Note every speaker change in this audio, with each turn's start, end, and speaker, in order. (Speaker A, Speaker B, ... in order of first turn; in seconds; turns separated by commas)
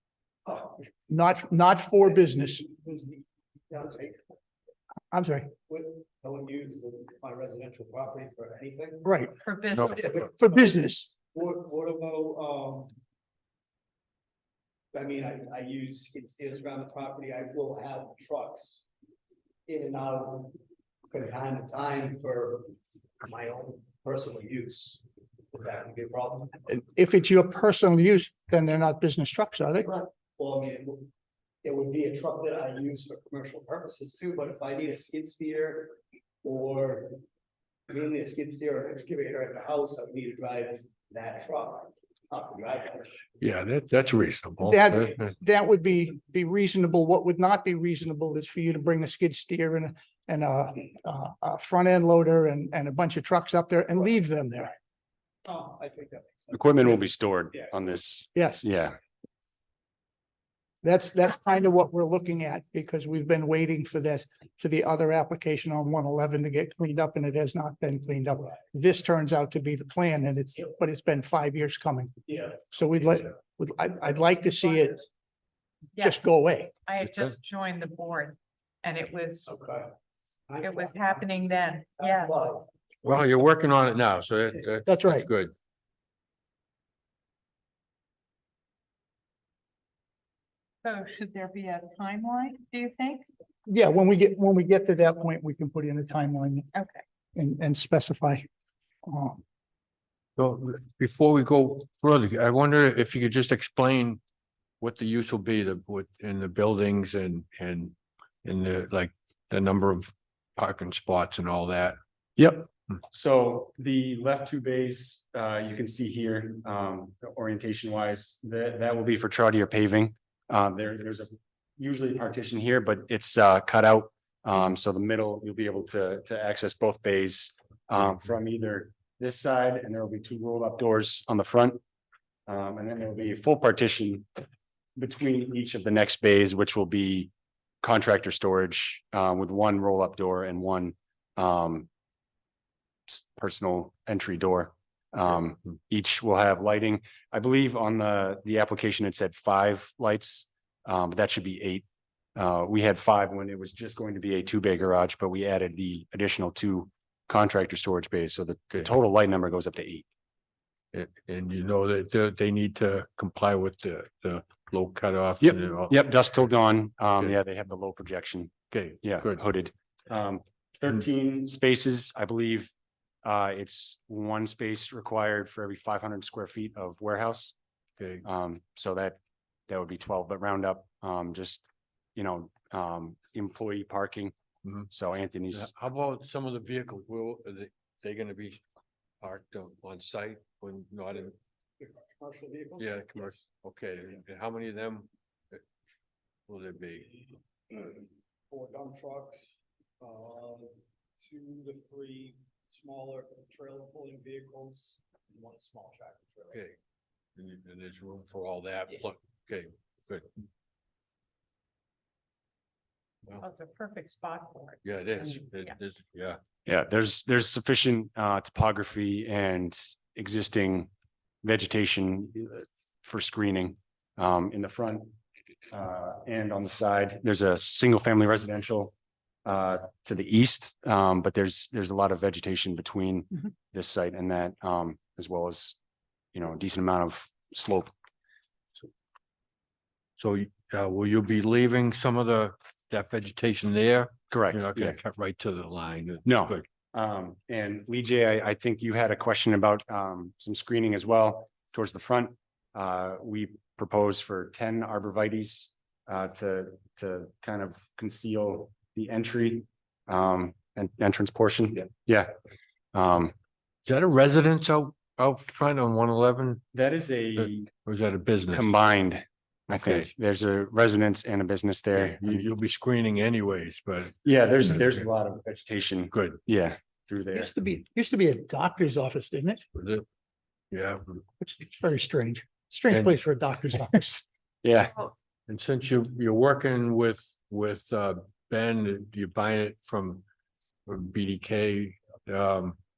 Speaker A: 0.5-0.8, Speaker B: 1.1-2.7, Speaker A: 2.6-4.2, Speaker B: 5.1-5.5, Speaker A: 5.7-9.2, Speaker B: 9.0-11.1, Speaker C: 9.4-10.3, Speaker A: 11.3-12.9, Speaker A: 14.9-18.9, Speaker A: 19.7-20.6, Speaker A: 21.1-25.0, Speaker A: 25.5-26.7, Speaker B: 26.7-30.1, Speaker A: 30.4-31.1, Speaker A: 31.6-37.2, Speaker A: 37.9-43.2, Speaker D: 43.4-45.3, Speaker B: 44.6-54.8, Speaker A: 55.5-57.7, Speaker E: 56.5-59.0, Speaker B: 58.4-58.6, Speaker B: 60.8-72.1, Speaker A: 72.3-72.6, Speaker B: 72.7-75.0, Speaker C: 76.0-76.3, Speaker B: 76.0-76.7, Speaker C: 76.8-79.5, Speaker A: 79.5-79.9, Speaker A: 80.5-81.5, Speaker C: 80.6-82.4, Speaker A: 82.0-82.7, Speaker D: 83.0-85.5, Speaker B: 84.9-85.3, Speaker C: 90.8-93.2, Speaker B: 93.7-96.7, Speaker C: 96.7-97.0, Speaker B: 97.3-98.5, Speaker B: 99.0-99.4, Speaker D: 100.4-104.2, Speaker D: 104.8-112.0, Speaker E: 112.4-131.8, Speaker E: 132.5-134.3, Speaker E: 135.0-137.3, Speaker E: 137.8-141.9, Speaker E: 143.1-151.8, Speaker E: 152.4-160.1, Speaker D: 160.9-165.9, Speaker E: 165.4-168.5, Speaker D: 168.7-169.4, Speaker E: 169.0-172.7, Speaker E: 173.2-177.6, Speaker D: 178.0-178.2, Speaker E: 178.2-184.3, Speaker D: 184.7-184.9, Speaker E: 184.9-185.7, Speaker D: 185.5-188.6, Speaker D: 189.2-191.4, Speaker A: 191.8-193.4, Speaker D: 192.8-195.6, Speaker D: 196.5-197.2, Speaker A: 197.7-199.4, Speaker A: 200.0-206.6, Speaker D: 206.5-206.8, Speaker D: 207.4-210.3, Speaker C: 213.4-215.4, Speaker D: 214.8-216.4, Speaker E: 216.7-220.9, Speaker E: 221.4-225.1, Speaker E: 225.7-228.9, Speaker E: 229.4-235.8, Speaker E: 236.3-237.9, Speaker D: 240.2-246.7, Speaker E: 244.3-245.0, Speaker E: 246.3-262.3, Speaker E: 262.9-263.4, Speaker D: 263.9-266.6, Speaker E: 266.7-267.7, Speaker D: 267.4-268.7, Speaker E: 268.5-272.5, Speaker D: 269.7-270.1, Speaker D: 271.9-275.1, Speaker E: 274.2-277.5, Speaker D: 276.1-276.4, Speaker B: 277.3-279.6, Speaker D: 279.7-280.1, Speaker D: 280.7-281.2, Speaker B: 281.4-284.2, Speaker D: 282.9-283.2, Speaker E: 284.6-284.9, Speaker D: 285.5-290.2, Speaker D: 290.9-292.8